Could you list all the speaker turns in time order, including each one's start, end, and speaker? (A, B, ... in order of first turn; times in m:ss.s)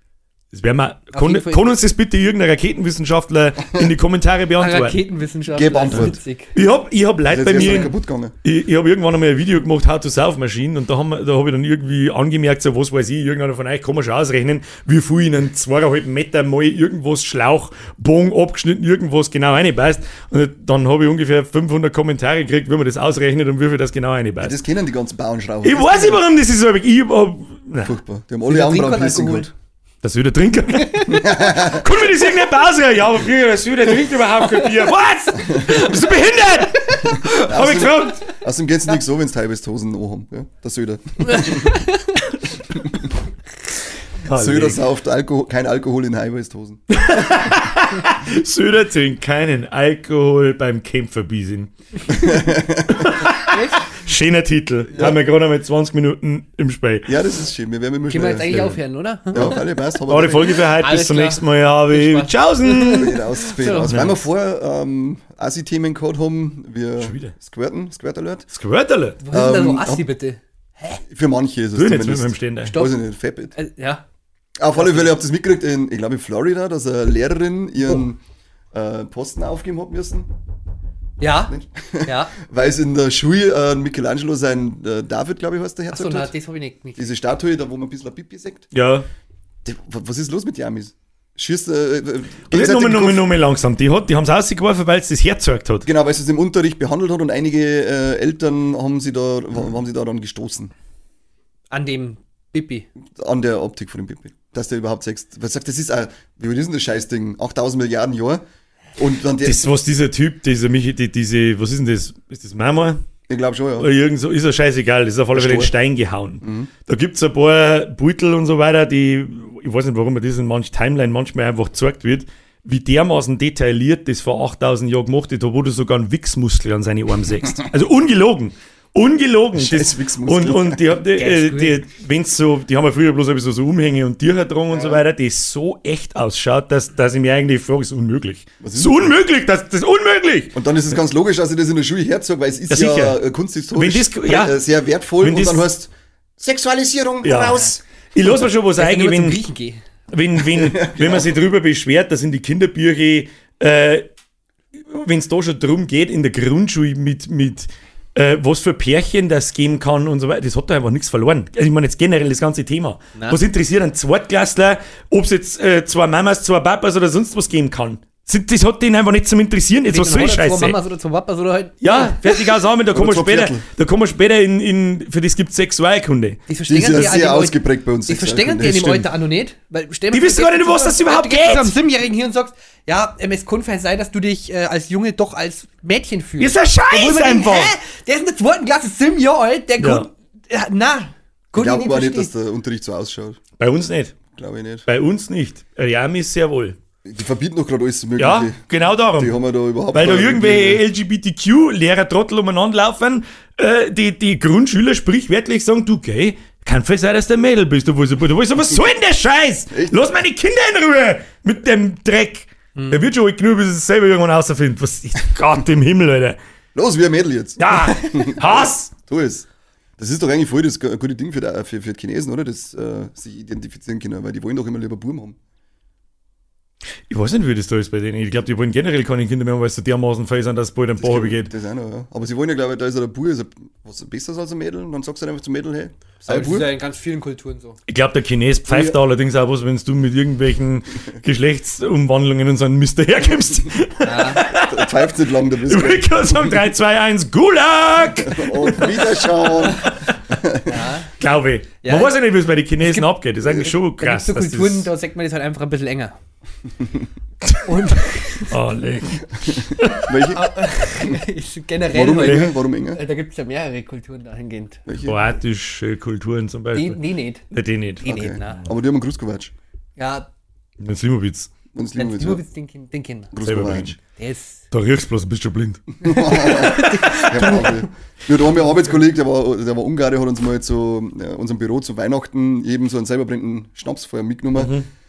0:00.5-0:05.0 A
0:01.1-0:01.7 B
0:04.6-0:06.5 B
0:05.5-0:06.2 C
0:05.9-0:24.6 A
0:07.3-0:08.3 C
0:24.4-0:26.2 C
0:25.6-0:28.0 A
0:27.8-0:29.5 C
0:28.5-0:29.5 B
0:30.0-0:38.2 A
0:31.1-0:31.8 C
0:37.2-0:41.8 C
0:41.4-0:41.9 B
0:44.2-0:44.8 A
0:44.3-0:46.8 C
0:46.9-0:52.2 A
0:52.1-0:53.0 C
0:52.9-0:57.1 A
0:53.4-0:53.9 B
0:54.9-0:55.2 C
0:57.1-0:58.6 C
0:58.1-0:59.6 B
0:58.5-0:58.8 A
0:59.3-1:00.6 C
1:00.1-1:03.2 A
1:00.8-1:04.0 B
1:02.9-1:08.5 C
1:03.8-1:04.2 A
1:07.0-1:07.3 A
1:08.5-1:09.2 A
1:09.2-1:11.0 B
1:09.3-1:10.0 C
1:11.1-1:13.5 C
1:11.8-1:12.8 A
1:12.7-1:13.0 B
1:13.5-1:14.0 B
1:14.6-1:18.2 C
1:14.7-1:15.1 B
1:18.7-1:20.3 C
1:21.2-1:21.5 B
1:21.5-1:26.3 C
1:22.0-1:22.3 B
1:25.9-1:27.1 B
1:27.0-1:28.7 C
1:28.7-1:29.1 A
1:29.6-1:33.3 C
1:32.5-1:35.9 A
1:35.8-1:40.7 C
1:41.7-1:42.9 B
1:43.2-1:48.4 C
1:49.0-1:49.7 C
1:49.4-1:53.0 A
1:53.3-1:53.9 C
1:53.8-2:20.6 A
1:55.3-1:55.7 C
1:56.4-1:56.7 C
2:09.5-2:10.9 C
2:11.1-2:11.8 B
2:14.7-2:15.0 C
2:18.6-2:19.2 C
2:20.5-2:27.8 C
2:22.7-2:23.2 A
2:23.7-2:24.6 A
2:25.2-2:25.7 A
2:27.2-2:29.4 A
2:28.8-2:29.8 B
2:30.1-2:34.0 A
2:30.5-2:31.3 C
2:34.7-2:50.8 A
2:49.9-2:52.3 B
2:51.8-2:56.4 A
2:52.9-2:53.6 C
2:56.5-3:12.3 B
2:56.7-2:59.1 C
3:00.1-3:01.8 A
3:06.4-3:07.7 A
3:09.8-3:10.1 A
3:11.5-3:13.4 C
3:13.6-3:14.2 A
3:14.3-3:14.8 C
3:14.9-3:16.8 A
3:17.0-3:18.6 C
3:18.2-3:19.4 A
3:19.1-3:20.8 C
3:19.9-3:36.4 A
3:29.7-3:30.0 C
3:32.7-3:33.0 B
3:36.7-3:39.5 C
3:37.6-3:38.9 A
3:40.0-3:45.4 C
3:47.1-3:51.5 A
3:51.0-3:56.7 C
3:56.3-3:57.8 B
3:57.9-4:04.9 A
3:58.7-3:59.0 C
4:04.0-4:04.4 B
4:04.4-4:06.6 C
4:05.6-4:10.1 A
4:08.2-4:10.7 C
4:10.6-4:11.1 B
4:11.2-4:14.9 A
4:11.8-4:12.1 B
4:12.8-4:16.2 B
4:17.4-4:17.9 A
4:17.6-4:18.5 B
4:18.5-4:20.2 A
4:19.4-4:20.5 C
4:20.3-4:24.8 B
4:21.9-4:23.0 C
4:22.2-4:22.5 A
4:24.9-4:25.2 C
4:25.0-4:28.0 A
4:26.7-4:27.4 B
4:28.0-4:28.6 B
4:28.0-4:29.5 C
4:30.0-4:30.2 B
4:30.8-4:31.5 A
4:31.7-4:32.4 C
4:32.0-4:33.3 B
4:33.3-4:34.0 C
4:33.4-4:34.0 A
4:34.2-4:34.6 B
4:34.7-4:36.0 A
4:36.0-4:44.7 C
4:36.0-4:37.9 B
4:44.5-4:44.9 A